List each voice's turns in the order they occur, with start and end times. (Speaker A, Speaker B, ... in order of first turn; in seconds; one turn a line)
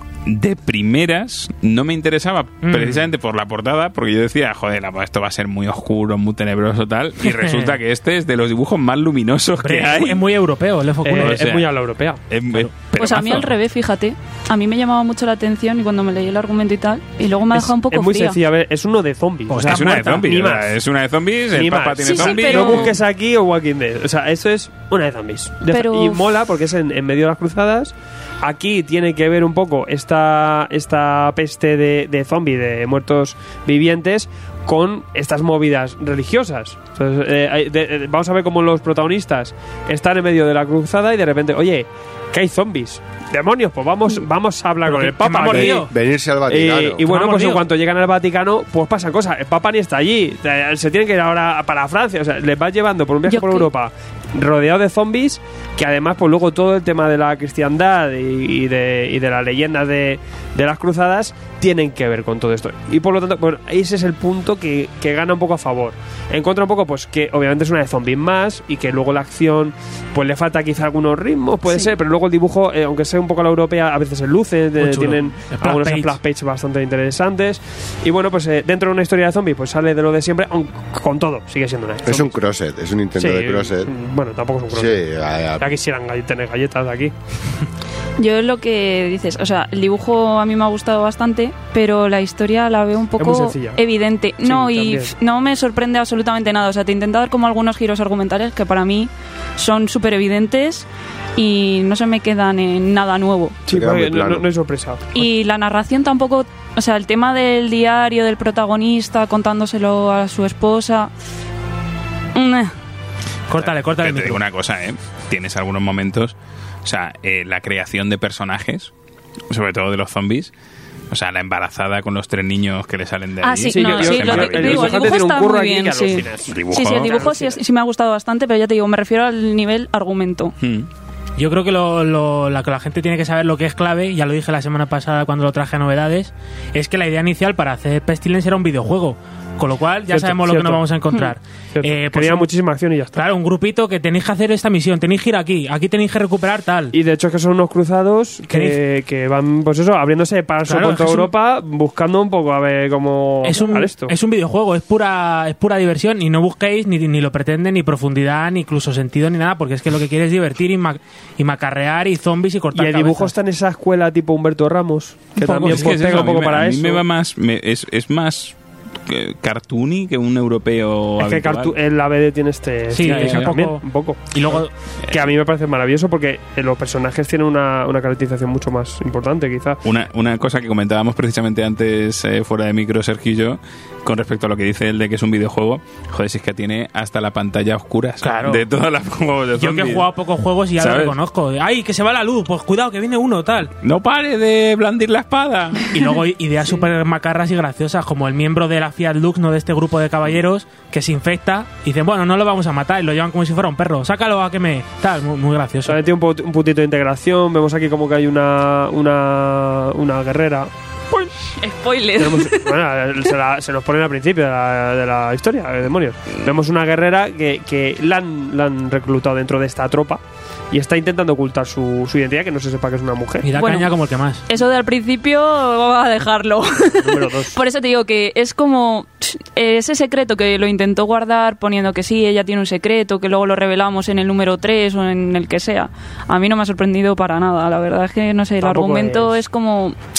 Speaker A: 0.3-10.2
Speaker B: 2.6-3.1
Speaker B: 7.3-7.8
Speaker B: 9.6-11.4
Speaker C: 11.0-12.2
Speaker A: 11.2-11.7
Speaker A: 12.3-13.5
Speaker D: 13.0-18.4
Speaker C: 17.5-20.8
Speaker B: 19.5-20.2
Speaker A: 19.6-23.0
Speaker C: 21.5-45.9
Speaker D: 22.0-23.0
Speaker D: 25.7-26.3
Speaker B: 44.9-45.9
Speaker E: 45.4-47.1
Speaker C: 46.5-82.3
Speaker B: 47.0-47.6
Speaker D: 53.3-53.7
Speaker B: 74.8-76.2
Speaker E: 82.0-83.9
Speaker C: 83.2-85.0
Speaker E: 84.7-85.8
Speaker C: 85.6-87.1
Speaker D: 88.2-103.6
Speaker C: 93.2-93.8
Speaker C: 94.4-95.1
Speaker C: 103.7-105.2
Speaker E: 103.7-104.5
Speaker D: 105.1-111.1
Speaker D: 112.3-112.7
Speaker B: 113.5-114.4
Speaker A: 113.6-118.9
Speaker A: 119.5-120.5
Speaker A: 121.1-125.0
Speaker D: 123.4-130.5
Speaker C: 123.7-127.6
Speaker A: 126.5-127.1
Speaker A: 130.6-130.9
Speaker B: 131.4-142.5
Speaker C: 140.1-140.8
Speaker C: 141.8-143.2
Speaker B: 143.2-146.9
Speaker C: 146.9-154.1
Speaker B: 148.5-148.8
Speaker B: 150.7-151.3
Speaker B: 153.4-163.3
Speaker C: 162.7-167.0
Speaker B: 165.4-166.3
Speaker A: 165.6-171.8
Speaker C: 171.2-179.8
Speaker B: 172.9-174.7
Speaker A: 173.0-173.6
Speaker A: 179.8-190.1
Speaker B: 188.2-188.7
Speaker B: 189.6-193.7
Speaker A: 190.8-191.2
Speaker A: 193.8-196.0
Speaker B: 195.9-206.0
Speaker C: 205.8-210.7
Speaker D: 211.1-212.8
Speaker C: 212.2-223.5
Speaker B: 223.4-224.5
Speaker D: 223.5-223.9
Speaker D: 224.5-240.0
Speaker C: 226.9-227.6
Speaker C: 238.6-239.4